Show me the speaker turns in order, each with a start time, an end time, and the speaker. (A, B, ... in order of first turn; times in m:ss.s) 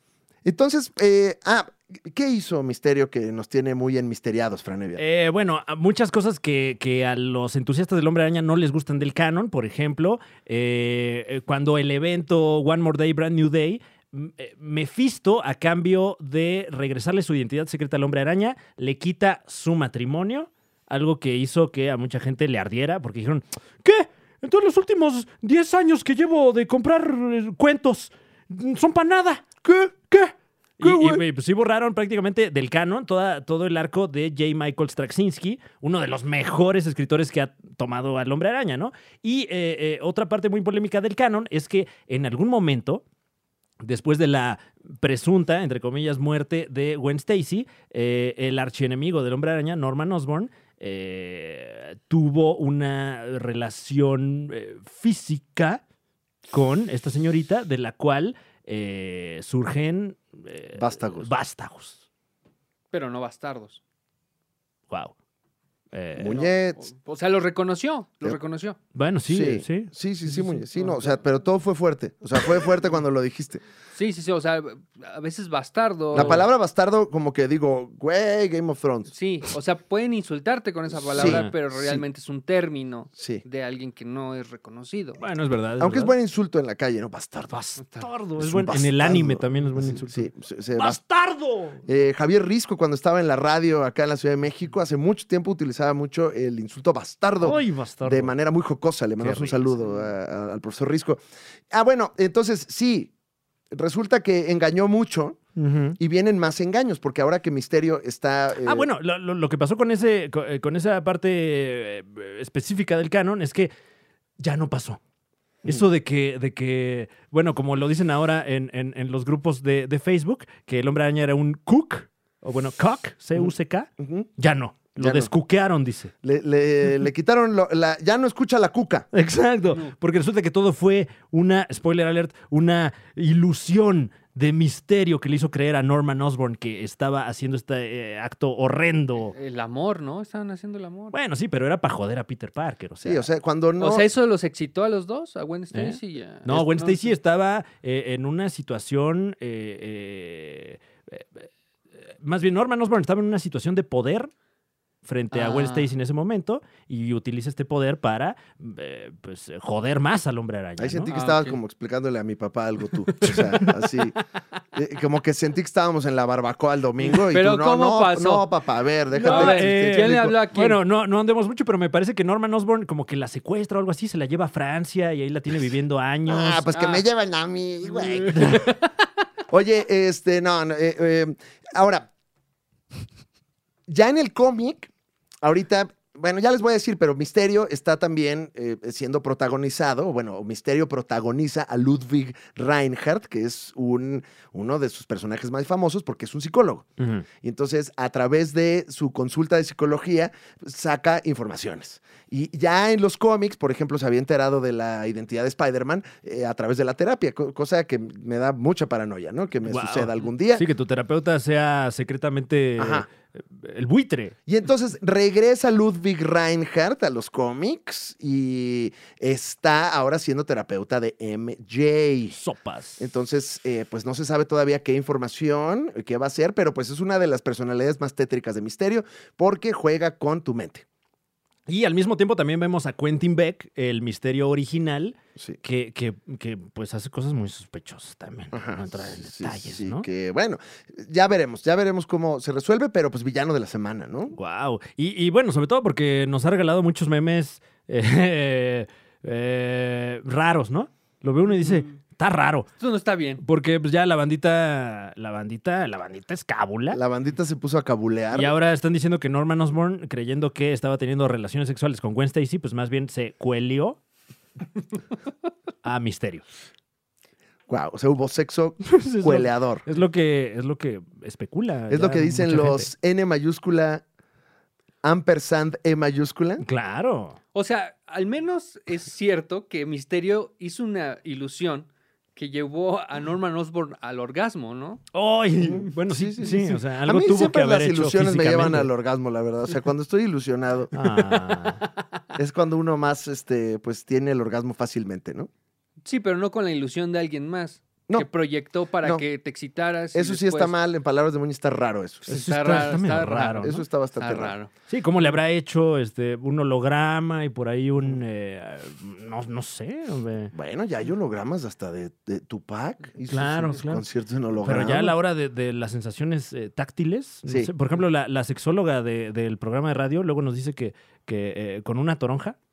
0:00.4-0:05.0 A
0:05.0-0:29.5 B
0:29.7-0:29.9 A
0:30.1-0:43.0 B
0:30.8-0:31.2 A
0:43.8-0:55.8 B
0:56.5-1:02.0 B
1:00.8-1:01.3 A
1:02.9-1:03.8 C
1:05.9-1:06.5 B
1:06.2-1:06.8 A
1:06.3-1:08.8 C
1:08.9-1:09.9 B
1:09.3-1:13.6 A
1:10.3-1:11.2 C
1:14.0-1:16.4 C
1:16.1-1:16.5 B
1:16.1-1:19.1 A
1:19.1-1:25.2 C
1:21.1-1:22.0 A
1:21.2-1:21.5 B
1:23.2-1:23.4 A
1:25.2-1:26.1 B
1:25.8-1:27.6 A
1:27.5-1:31.8 B
1:27.8-1:28.1 C
1:28.4-1:31.0 A
1:31.9-1:43.1 A
1:37.4-1:38.3 B
1:39.2-1:40.1 B
1:43.7-1:45.4 A
1:45.6-1:46.0 B
1:46.0-1:48.9 A
1:48.6-1:53.7 B
1:54.4-1:55.0 B
1:55.6-2:06.1 B
2:03.4-2:04.3 A
2:05.0-2:05.3 A
2:06.2-2:09.1 A
2:09.1-2:19.4 B
2:19.3-2:21.1 C
2:21.1-2:23.3 B
2:23.0-2:24.1 A
2:23.8-2:27.0 C
2:25.7-2:34.3 B
2:35.0-2:41.2 B
2:35.3-2:35.9 C
2:40.8-2:44.2 A
2:41.1-2:41.6 C
2:43.2-2:43.6 B
2:44.7-2:50.3 A
2:47.0-2:48.5 C
2:49.1-2:50.8 C
2:49.2-2:56.7 B
2:56.3-2:58.7 A
2:56.7-2:57.0 C
2:57.9-2:58.8 C
2:59.5-3:02.1 A
3:03.9-3:04.9 A
3:05.4-3:16.9 A
3:17.0-3:17.2 B
3:17.4-3:30.6 A
3:29.6-3:34.4 B
3:32.8-3:33.1 A
3:34.5-3:42.4 A
3:42.3-3:43.0 B
3:43.0-3:50.8 A
3:51.7-4:00.1 B
3:58.5-4:04.4 A
4:04.4-4:12.7 B
4:11.6-4:11.9 C
4:12.8-4:13.4 C
4:13.4-4:17.0 B
4:16.9-4:18.5 A
4:18.3-4:24.0 B
4:25.8-4:26.4 B
4:27.7-4:29.8 A
4:28.9-4:32.9 B
4:31.9-4:34.0 A
4:35.0-4:36.6 A
4:36.6-4:37.4 B
4:37.5-4:45.0 C
4:45.1-4:48.9 B
4:45.6-4:50.9 A
4:50.9-4:51.8 B
4:52.4-4:55.5 A
4:56.0-5:00.7 C
5:00.1-5:02.8 A
5:02.3-5:03.8 B
5:02.3-5:04.7 C
5:03.6-5:04.6 A
5:04.9-5:10.5 B
5:10.5-5:15.2 A
5:13.3-5:14.1 B
5:14.6-5:22.6 B